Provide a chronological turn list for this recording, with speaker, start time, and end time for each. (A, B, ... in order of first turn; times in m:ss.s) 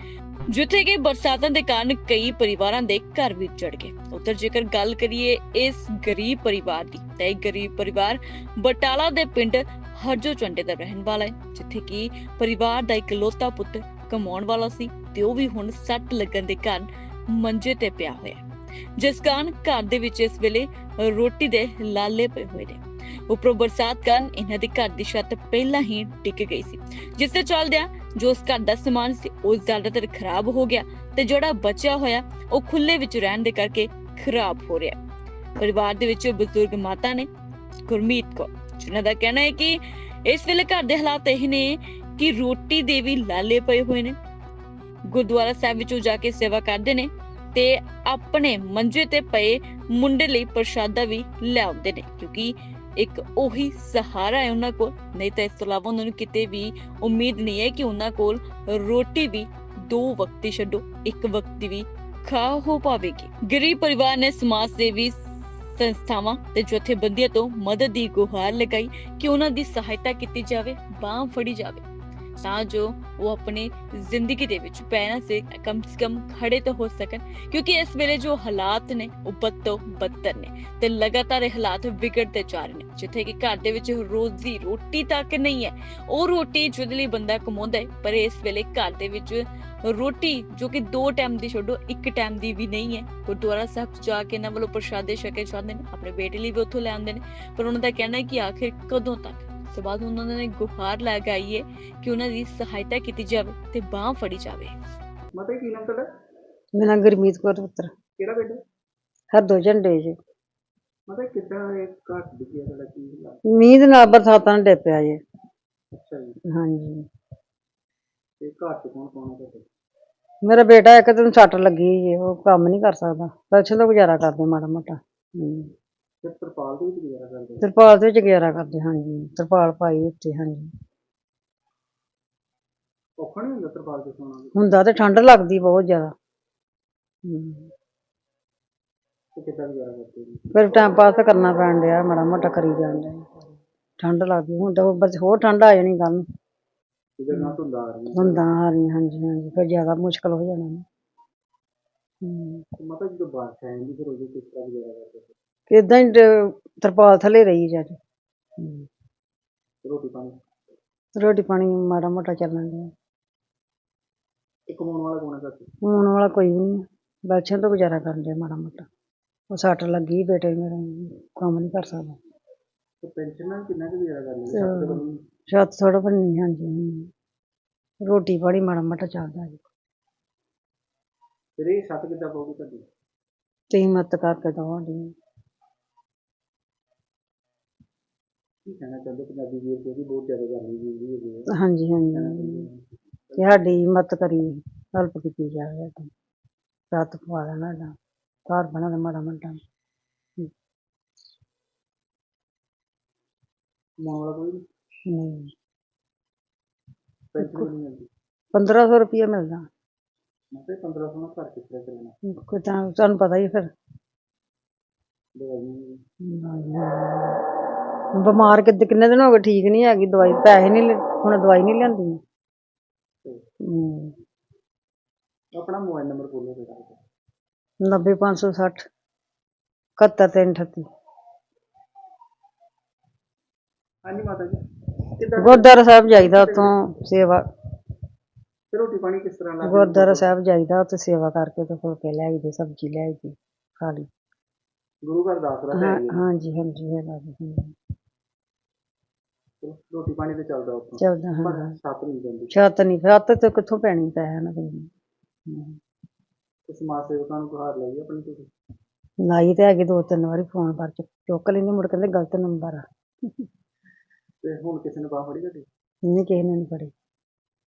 0:00.5-0:18.4 A
0:19.0-0:35.0 A
0:35.6-0:37.3 A
0:37.8-0:44.1 A
0:45.1-1:05.2 A
1:05.7-1:11.8 A
1:12.4-1:44.7 A
1:45.3-1:46.0 B
1:46.8-1:47.9 C
1:48.2-1:48.6 B
1:49.3-1:50.2 C
1:51.1-1:53.4 B
1:53.5-1:55.2 C
1:55.9-1:56.4 B
1:56.5-1:57.0 C
1:58.4-1:59.6 B
2:00.4-2:05.7 C
2:06.2-2:07.7 B
2:07.6-2:10.7 C
2:13.2-2:14.7 B
2:14.5-2:16.1 C
2:17.2-2:17.7 C
2:19.4-2:20.5 B
2:20.5-2:26.2 C
2:27.2-2:28.4 B
2:28.1-2:30.8 C
2:32.2-2:32.6 C
2:32.8-2:35.3 B
2:35.7-2:38.0 C
2:38.6-2:38.9 C
2:39.8-2:40.3 B
2:41.2-2:42.9 C
2:44.7-2:45.7 B
2:45.8-2:48.8 C
2:49.5-2:52.2 C
2:53.0-2:55.2 B
2:54.5-2:57.1 C
2:58.0-2:59.6 C
3:01.6-3:02.8 B
3:03.7-3:05.1 C
3:08.6-3:11.5 B
3:11.5-3:12.6 C
3:12.1-3:13.6 B
3:13.4-3:16.1 C
3:16.9-3:17.9 C
3:18.5-3:19.6 C
3:24.0-3:24.6 B
3:25.1-3:25.5 C
3:27.3-3:28.1 B
3:27.4-3:27.7 C
3:28.5-3:29.6 C
3:30.5-3:32.1 B
3:32.2-3:33.7 C
3:35.3-3:36.0 B
3:36.3-3:37.4 C
3:38.2-3:42.2 C
3:43.6-3:44.1 C
3:45.5-3:47.0 B
3:47.8-3:48.9 C
3:50.0-3:50.8 C
3:54.0-3:54.6 B
3:55.2-3:56.8 B
3:55.4-3:57.4 C
3:58.7-4:00.3 B
3:59.6-4:04.1 C
4:05.0-4:06.2 B
4:05.7-4:07.7 C
4:09.6-4:12.5 B
4:11.0-4:11.7 C
4:12.5-4:14.9 C
4:15.5-4:15.8 C
4:16.7-4:18.5 B
4:19.2-4:22.8 C
4:24.4-4:25.6 B
4:26.1-4:26.9 C